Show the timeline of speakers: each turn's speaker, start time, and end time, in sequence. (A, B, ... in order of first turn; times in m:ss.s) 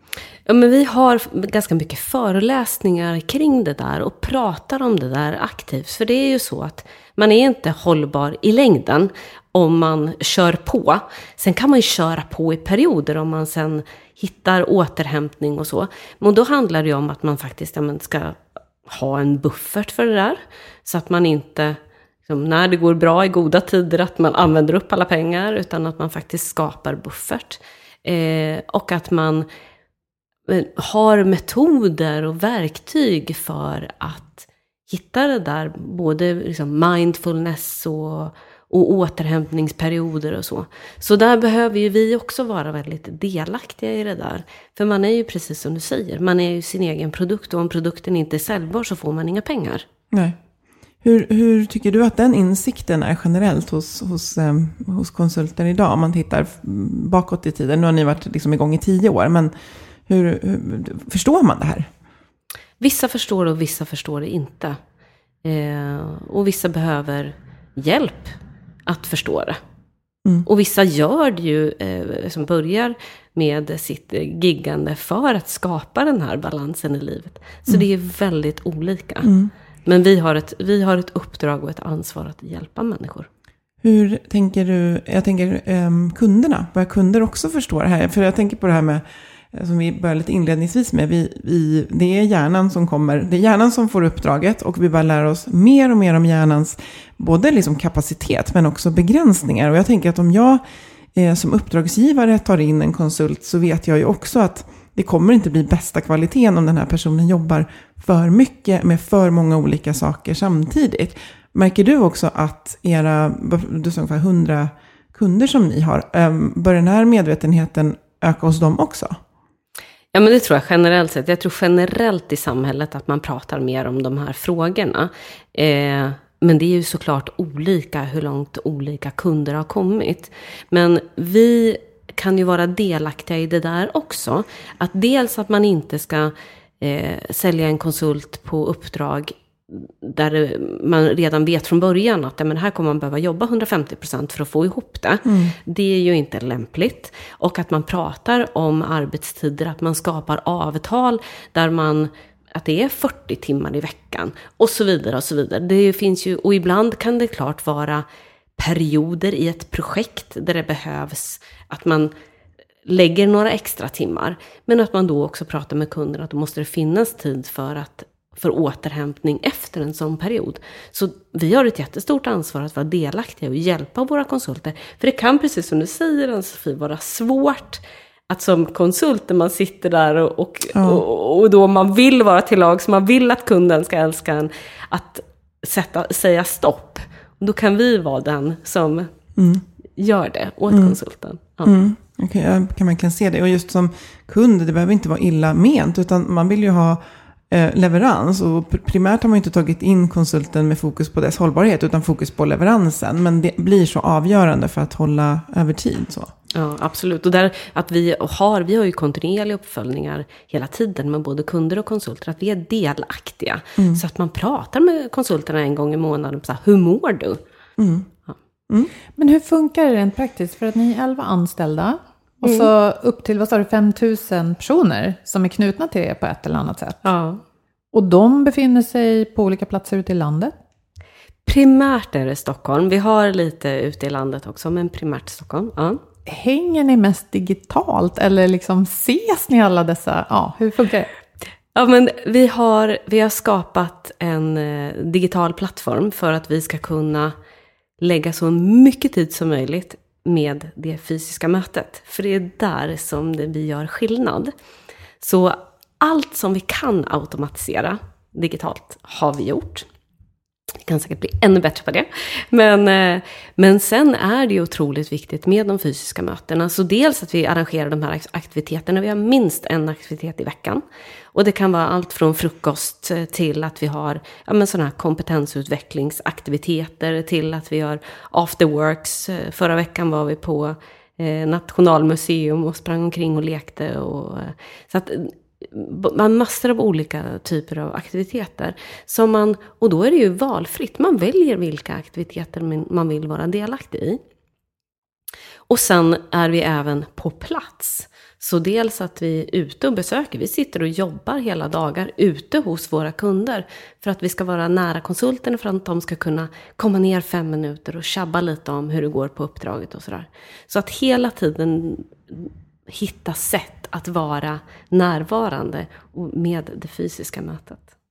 0:00.5-0:29.4 A
0:30.5-0:49.9 A
0:50.1-0:50.4 B
0:51.0-0:59.5 B
1:00.1-1:01.9 B
1:02.8-1:04.8 A
1:05.4-1:08.4 A
1:08.9-1:09.6 A
1:10.4-1:19.3 A
1:19.2-1:19.5 B
1:19.8-1:23.3 A
1:23.8-1:40.6 B
1:41.1-1:59.2 B
2:00.1-2:38.0 A
2:25.2-2:25.6 B
2:38.6-2:42.1 A
2:42.9-3:09.1 A
3:00.7-3:01.0 B
3:09.4-3:09.6 B
3:10.0-3:11.7 A
3:10.7-3:11.0 B
3:11.6-3:26.3 B
3:26.5-3:37.4 A
3:33.8-3:34.0 B
3:37.8-3:38.1 B
3:39.2-3:47.0 C
3:47.0-3:47.4 A
3:47.9-3:50.5 C
3:51.4-3:56.0 A
3:56.3-4:01.1 C
4:01.7-4:07.4 A
4:08.0-4:14.5 A
4:15.2-4:19.9 A
4:20.8-4:30.8 A
4:31.3-4:54.2 A
4:55.7-5:17.9 A